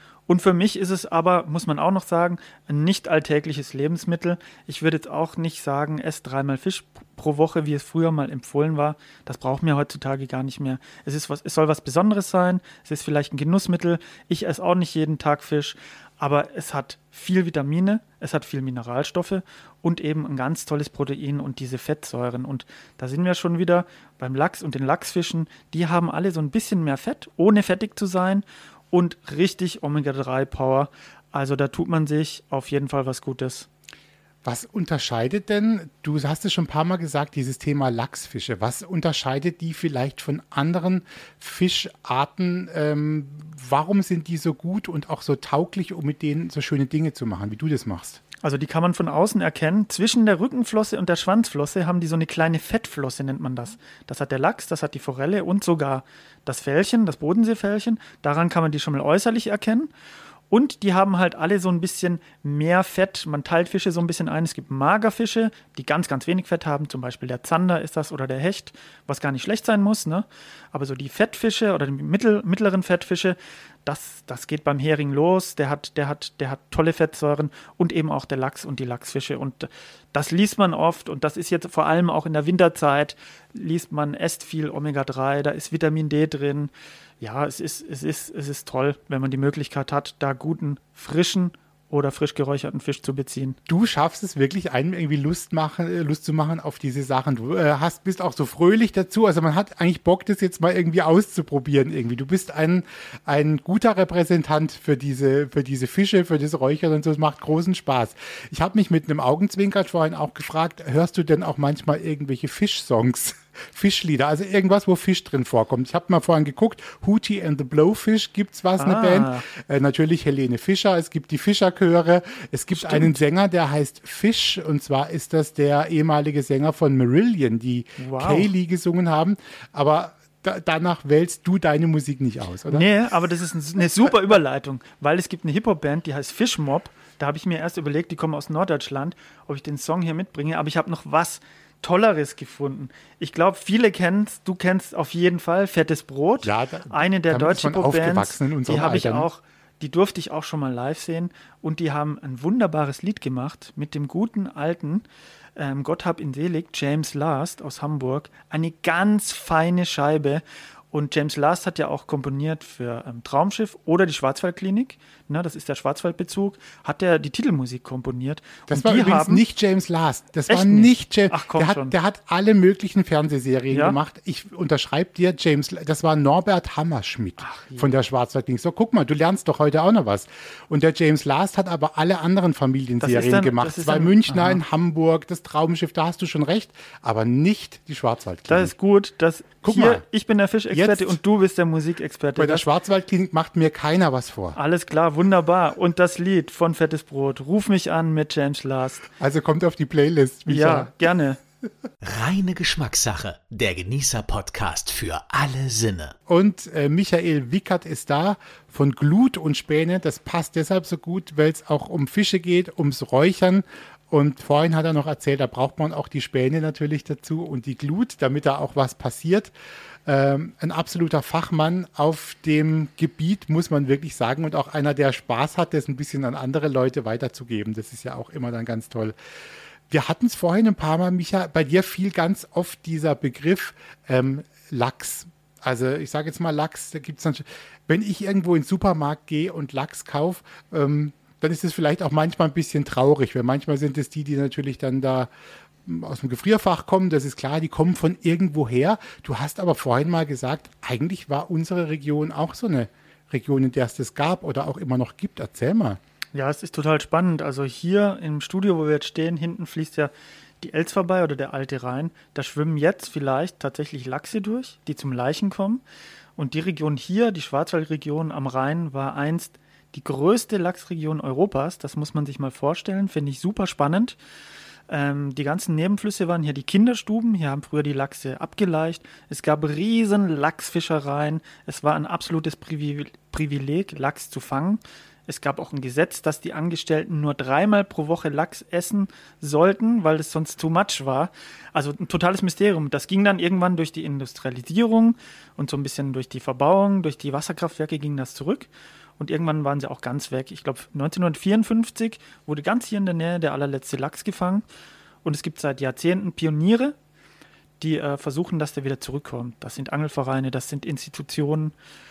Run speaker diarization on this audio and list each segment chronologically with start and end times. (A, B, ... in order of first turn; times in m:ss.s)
0:00.3-0:33.7 A
0:34.4-0:48.2 B
0:48.4-0:59.9 A
1:00.5-1:33.6 A
1:33.7-2:12.9 B
1:58.8-1:59.4 A
2:02.7-2:03.2 A
2:08.0-2:08.5 A
2:12.7-2:35.0 A
2:26.4-2:29.3 B
2:35.6-2:49.4 A
2:48.7-3:08.7 B
2:50.5-2:51.9 A
2:53.7-2:54.0 A
2:57.4-2:57.9 A
3:03.0-3:04.6 A
3:08.5-3:12.6 A
3:09.6-3:10.0 B
3:10.7-3:11.2 B
3:12.4-3:14.6 B
3:14.6-3:19.1 A
3:19.2-3:21.0 B
3:20.5-3:21.4 A
3:22.0-3:26.1 C
3:26.3-3:39.5 B
3:40.0-3:49.1 B
3:49.9-4:05.3 B
4:05.8-4:16.0 B
4:16.3-4:25.8 A
4:26.4-4:34.2 A
4:34.9-5:04.6 A
5:05.2-5:06.9 A
5:07.8-5:11.7 A